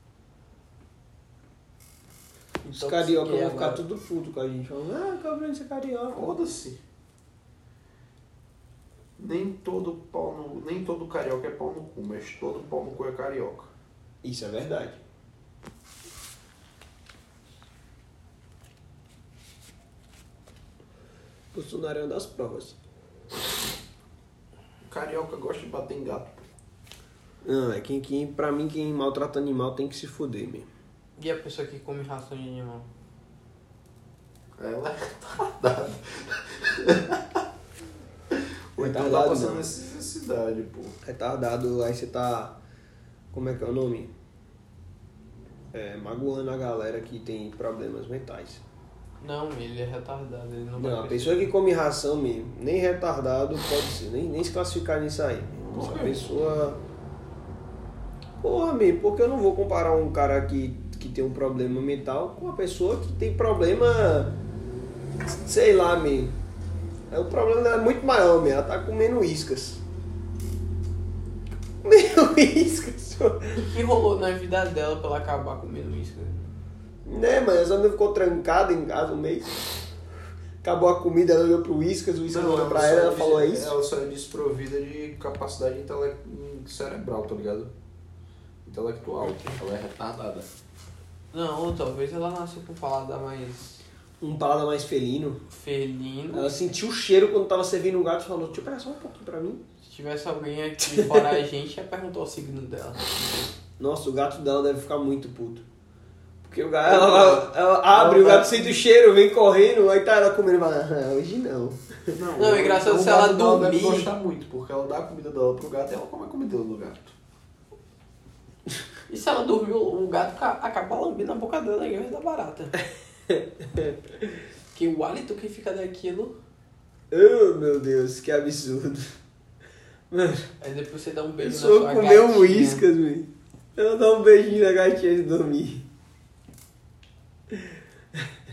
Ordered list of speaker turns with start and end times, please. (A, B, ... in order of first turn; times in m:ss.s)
0:02.6-0:03.8 A
0:02.7-0:06.4 B
0:06.1-0:06.8 C
0:09.2-0:13.7 C
0:14.2-0:15.0 B
0:21.5-0:22.8 B
0:24.9-0:26.4 C
0:27.4-0:30.7 B
0:31.2-0:32.8 A
0:34.6-0:37.4 C
0:38.4-0:41.0 C
0:38.8-0:39.6 B
0:41.0-0:42.6 B
0:43.3-0:44.1 B
0:45.7-0:48.6 B
0:49.2-0:51.5 A
0:50.8-0:56.8 B
0:55.6-0:56.2 C
0:58.4-1:04.3 B
1:05.2-1:06.4 B
1:07.1-1:09.8 B
1:11.8-1:13.6 B
1:13.5-1:16.5 A
1:17.0-1:19.6 B
1:20.6-1:23.7 B
1:22.3-1:27.7 C
1:28.6-1:30.5 C
1:31.3-1:33.8 A
1:34.2-1:35.4 B
1:35.5-1:36.5 A
1:36.3-1:39.6 B
1:39.8-1:43.3 A
1:40.8-1:41.4 B
1:43.8-1:45.6 B
1:46.4-1:52.1 B
1:46.8-1:48.5 C
1:52.1-1:57.2 C
1:52.4-1:54.1 A
1:59.1-2:02.8 A
2:03.3-2:04.0 B
2:04.7-2:06.3 A
2:07.1-2:09.1 B
2:10.1-2:10.4 B
2:10.6-2:12.8 A
2:11.4-2:15.9 B
2:17.5-2:18.2 B